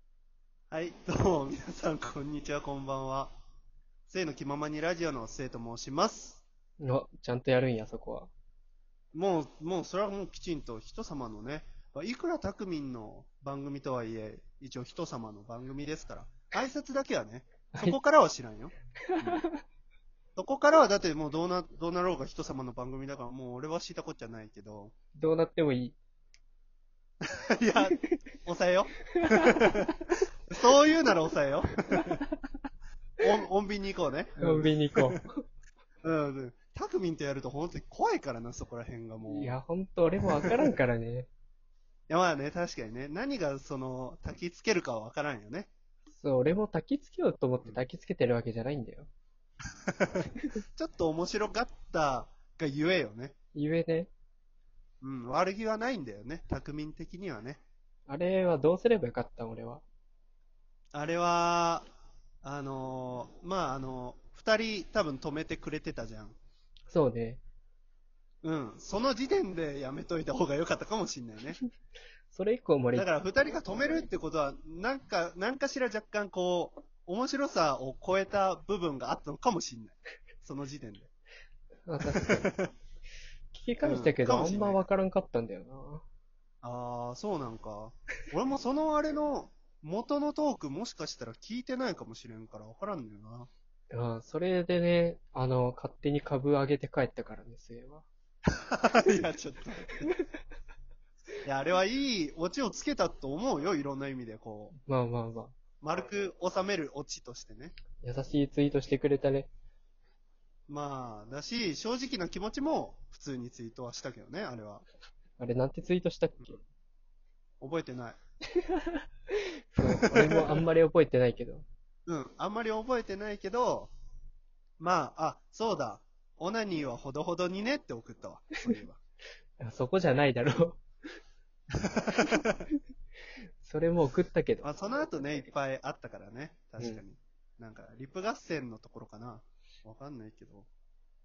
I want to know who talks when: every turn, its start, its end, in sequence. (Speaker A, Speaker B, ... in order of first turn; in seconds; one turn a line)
Speaker A: 0.7-3.4
Speaker A: 4.1-6.4
Speaker B: 6.8-8.3
Speaker A: 9.1-19.5
Speaker B: 19.1-19.6
Speaker A: 20.4-24.9
Speaker B: 25.2-26.0
Speaker A: 27.2-29.9
Speaker A: 30.5-32.2
Speaker A: 33.2-35.2
Speaker B: 34.4-35.4
Speaker A: 36.0-39.6
Speaker B: 39.3-41.3
Speaker A: 40.4-40.7
Speaker A: 42.1-45.7
Speaker B: 46.2-49.1
Speaker A: 49.9-53.4
Speaker B: 53.5-54.1
Speaker A: 55.0-57.6
Speaker B: 58.1-59.8
Speaker A: 60.9-61.9
Speaker A: 62.4-66.4
Speaker B: 66.9-67.4
Speaker A: 68.4-71.6
Speaker B: 72.3-73.1
Speaker A: 72.9-81.1
Speaker B: 81.9-82.5
Speaker A: 82.1-82.7
Speaker B: 83.5-86.0
Speaker A: 83.8-84.8
Speaker A: 86.6-93.5
Speaker B: 93.9-98.1
Speaker A: 98.7-100.1
Speaker A: 101.4-104.8
Speaker B: 104.8-105.5
Speaker A: 105.8-107.8
Speaker B: 108.0-109.5
Speaker A: 110.7-114.9
Speaker B: 115.4-116.6
Speaker A: 117.6-118.2
Speaker B: 118.6-121.7
Speaker A: 119.8-120.6
Speaker A: 122.1-123.9
Speaker A: 124.8-129.0
Speaker B: 129.6-130.8
Speaker A: 131.8-132.6
Speaker B: 133.6-134.7
Speaker A: 134.6-140.7